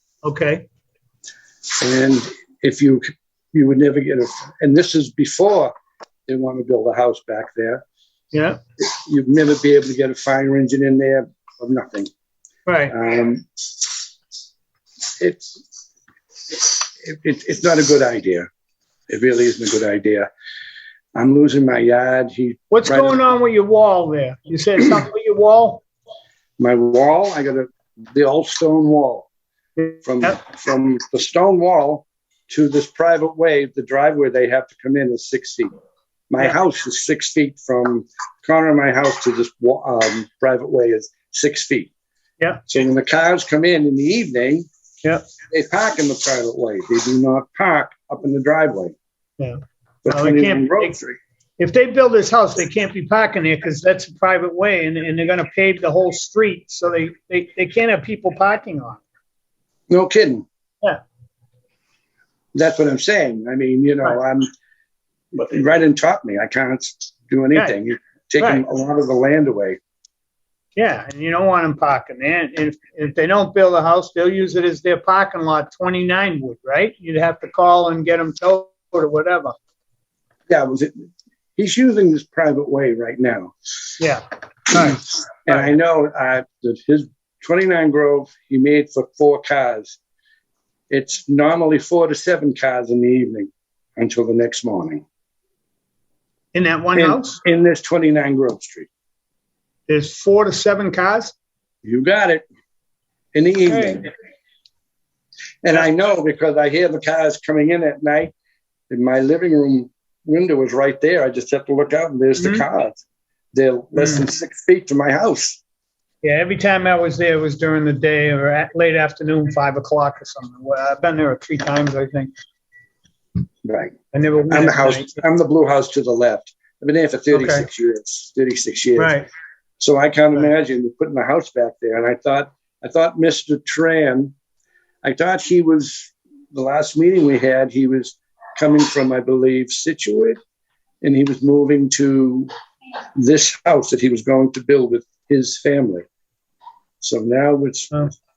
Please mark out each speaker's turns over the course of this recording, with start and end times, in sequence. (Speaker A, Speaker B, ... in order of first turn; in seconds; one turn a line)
Speaker A: 0.2-0.7
Speaker B: 1.8-5.7
Speaker B: 6.3-7.8
Speaker A: 8.3-8.6
Speaker B: 8.8-12.1
Speaker A: 12.7-12.9
Speaker B: 12.9-13.4
Speaker B: 15.2-15.6
Speaker B: 16.5-18.5
Speaker B: 19.1-20.3
Speaker B: 21.1-23.2
Speaker A: 22.7-25.8
Speaker B: 26.6-29.3
Speaker A: 29.8-30.4
Speaker B: 30.0-35.7
Speaker B: 36.3-41.9
Speaker B: 42.7-44.7
Speaker B: 45.5-49.0
Speaker A: 49.4-51.0
Speaker B: 50.0-51.2
Speaker A: 51.6-59.0
Speaker B: 59.9-60.5
Speaker B: 62.5-64.5
Speaker B: 65.3-69.8
Speaker A: 70.8-79.5
Speaker B: 80.5-83.5
Speaker A: 84.0-85.7
Speaker B: 85.5-90.0
Speaker B: 90.9-95.0
Speaker A: 96.5-97.4
Speaker B: 97.0-98.9
Speaker A: 99.9-101.3
Speaker B: 101.8-102.4
Speaker B: 103.3-104.1
Speaker A: 103.7-104.0
Speaker B: 105.6-108.3
Speaker B: 108.9-113.0
Speaker A: 112.4-112.6
Speaker B: 113.5-115.6
Speaker A: 114.0-114.2
Speaker A: 116.2-122.3
Speaker B: 123.7-123.9
Speaker A: 124.1-125.2
Speaker B: 124.5-129.2
Speaker A: 127.3-127.7
Speaker A: 129.0-129.3
Speaker B: 129.8-134.3
Speaker B: 135.0-140.4
Speaker B: 141.0-142.5
Speaker B: 143.2-146.1
Speaker B: 147.0-148.1